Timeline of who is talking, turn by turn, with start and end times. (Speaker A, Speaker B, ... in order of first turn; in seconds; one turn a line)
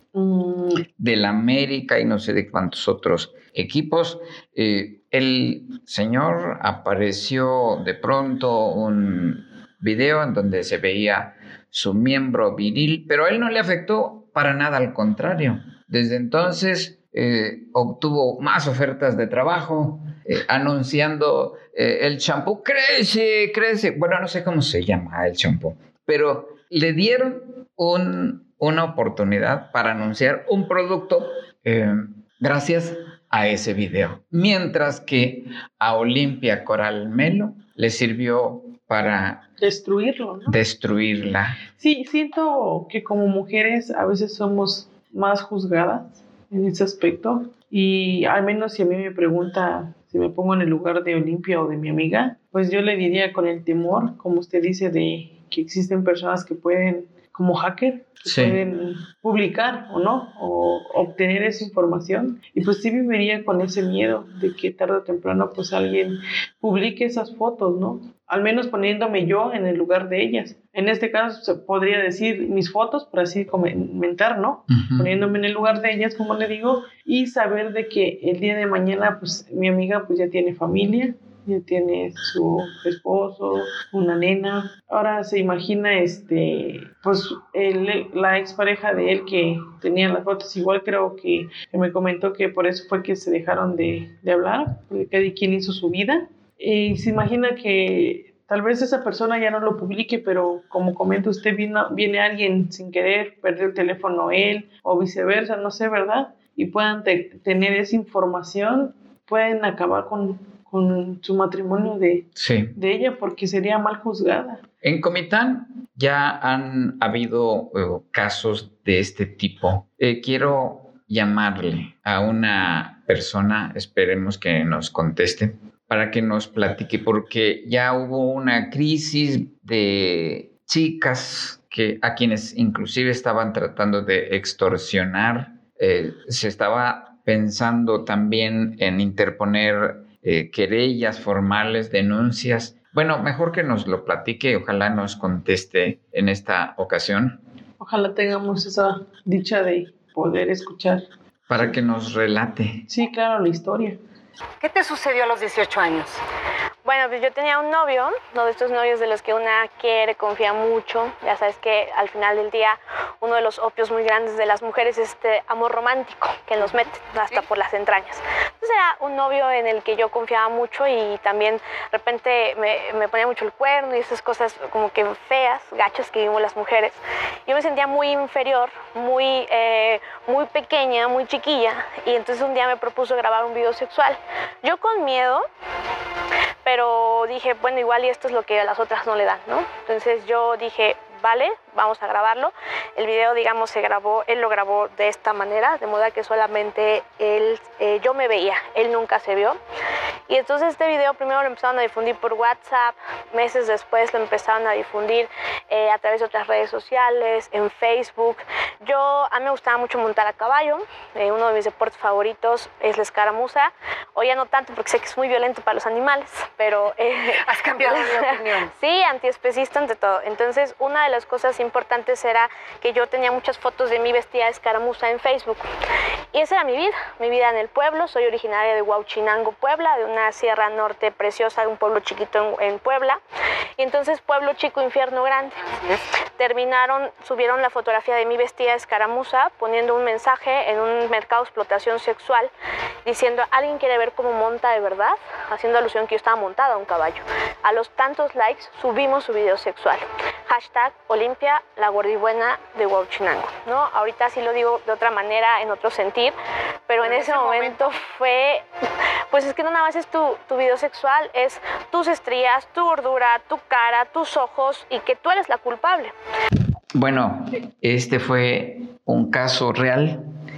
Speaker A: 0.1-0.8
Speaker B: 1.0-39.5
Speaker A: 39.6-40.6
Speaker B: 40.5-41.6
Speaker A: 41.8-114.6
Speaker B: 58.2-58.6
Speaker B: 74.7-75.1
Speaker B: 112.3-112.8
Speaker B: 114.8-147.4
Speaker A: 147.8-151.1
Speaker B: 151.5-152.8
Speaker A: 152.9-154.0
Speaker C: 154.6-156.2
Speaker D: 156.8-185.4
Speaker D: 186.6-199.6
Speaker D: 200.3-225.6
Speaker C: 217.4-218.7
Speaker D: 226.3-233.2
Speaker D: 233.8-235.6
Speaker D: 236.4-242.5
Speaker D: 243.0-256.3
Speaker D: 256.9-258.6
Speaker C: 257.0-257.8
Speaker D: 259.3-266.1
Speaker B: 266.9-270.2